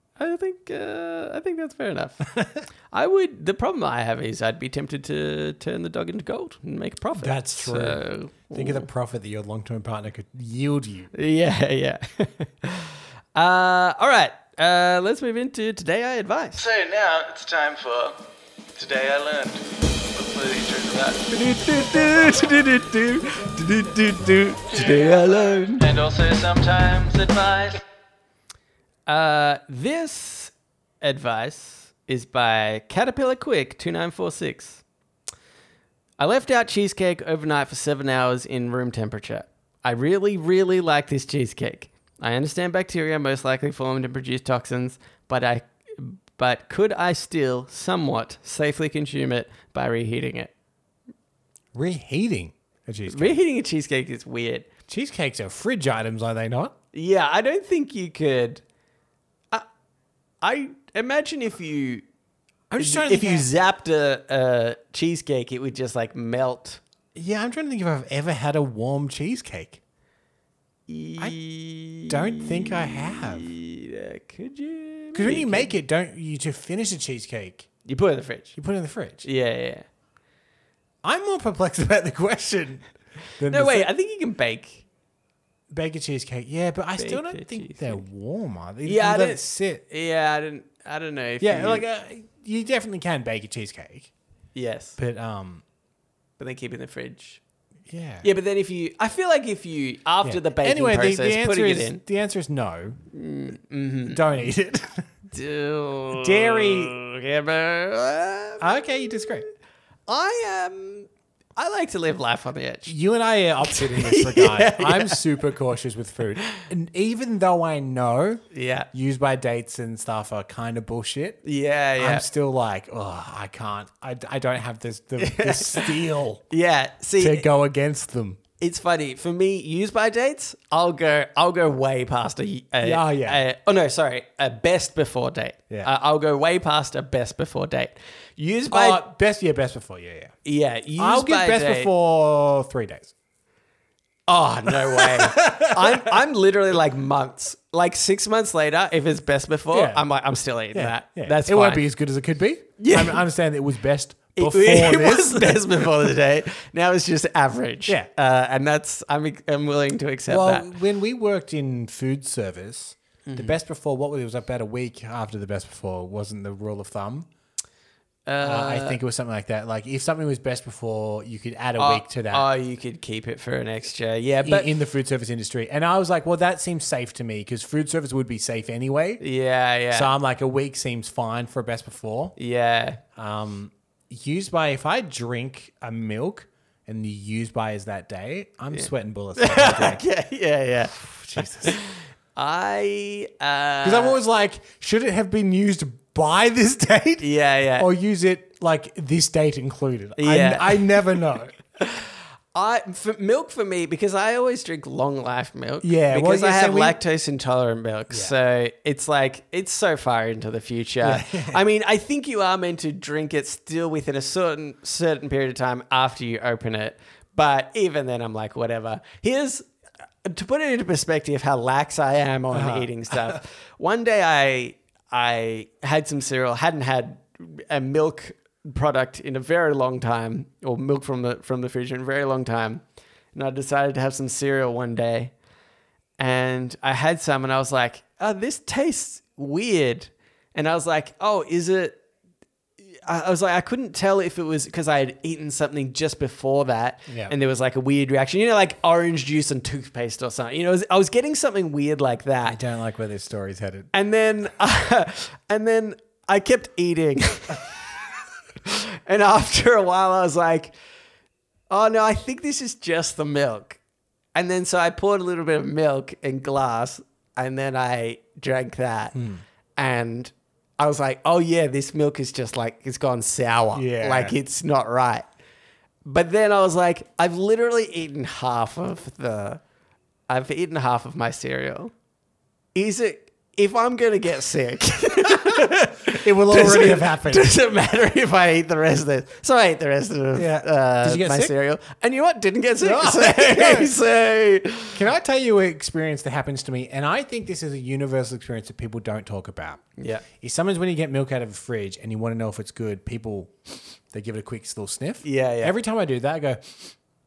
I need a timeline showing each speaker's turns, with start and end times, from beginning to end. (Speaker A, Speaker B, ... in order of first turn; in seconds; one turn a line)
Speaker A: 0.2-2.3
Speaker B: 2.3-2.7
Speaker A: 2.9-8.9
Speaker B: 7.2-11.1
Speaker A: 11.1-16.8
Speaker C: 16.8-18.1
Speaker C: 18.8-19.6
Speaker C: 20.1-21.2
Speaker A: 21.1-27.8
Speaker C: 26.0-27.7
Speaker A: 29.1-34.8
Speaker A: 36.2-50.5
Speaker B: 51.7-53.4
Speaker A: 53.1-54.7
Speaker B: 54.9-56.8
Speaker A: 56.9-58.6
Speaker A: 60.4-62.0
Speaker B: 62.7-63.5
Speaker A: 62.8-66.8
Speaker B: 67.2-69.8
Speaker A: 70.9-75.7
Speaker B: 72.1-73.5
Speaker B: 75.1-77.7
Speaker A: 77.9-78.6
Speaker B: 78.6-79.2
Speaker A: 79.2-79.9
Speaker B: 81.0-83.9
Speaker A: 83.5-84.8
Speaker B: 85.7-89.8
Speaker A: 87.0-88.0
Speaker A: 88.8-91.9
Speaker B: 91.4-94.1
Speaker A: 94.5-95.0
Speaker B: 95.0-95.6
Speaker A: 96.4-97.4
Speaker B: 97.9-98.3
Speaker A: 98.2-102.0
Speaker B: 100.2-103.0
Speaker A: 103.1-104.2
Speaker B: 104.1-105.1
Speaker A: 105.3-109.3
Speaker B: 106.2-107.0
Speaker B: 108.6-109.5
Speaker A: 110.1-112.9
Speaker B: 112.9-121.4
Speaker A: 113.6-115.2
Speaker A: 118.5-118.9
Speaker A: 121.4-122.3
Speaker B: 122.0-126.4
Speaker A: 125.2-127.5
Speaker B: 127.2-128.4
Speaker A: 128.6-139.1
Speaker B: 132.8-133.4
Speaker B: 138.7-140.3
Speaker A: 140.4-141.9
Speaker B: 141.0-143.1
Speaker A: 144.3-151.8
Speaker B: 144.7-146.2
Speaker B: 149.7-150.1
Speaker B: 150.7-156.1
Speaker A: 152.8-153.2
Speaker A: 154.4-160.7
Speaker B: 160.3-167.3
Speaker A: 163.3-163.6
Speaker A: 168.3-169.0
Speaker B: 168.4-172.5
Speaker A: 171.8-174.7
Speaker B: 174.4-179.2
Speaker A: 179.2-180.1
Speaker B: 179.9-182.3
Speaker A: 182.4-183.0
Speaker B: 183.2-190.0
Speaker A: 188.7-194.2
Speaker B: 191.2-191.8
Speaker B: 193.8-201.6
Speaker A: 197.2-197.9
Speaker A: 200.2-201.2
Speaker A: 201.8-219.7
Speaker B: 205.8-207.0
Speaker B: 211.0-211.6
Speaker A: 220.2-232.8
Speaker B: 222.5-223.4
Speaker A: 233.3-235.3
Speaker A: 236.2-242.0
Speaker A: 243.1-252.6
Speaker B: 247.1-247.3
Speaker B: 252.5-253.9
Speaker A: 253.9-257.7
Speaker A: 258.6-260.7
Speaker A: 261.7-263.8
Speaker A: 264.4-269.2
Speaker B: 269.1-269.4
Speaker A: 269.8-275.3
Speaker B: 273.7-274.4
Speaker A: 276.1-279.6
Speaker A: 280.3-281.9
Speaker A: 282.8-295.0
Speaker B: 285.3-287.5
Speaker B: 290.4-291.5
Speaker B: 292.8-293.9
Speaker B: 294.9-306.9
Speaker A: 300.0-300.2
Speaker A: 305.2-305.7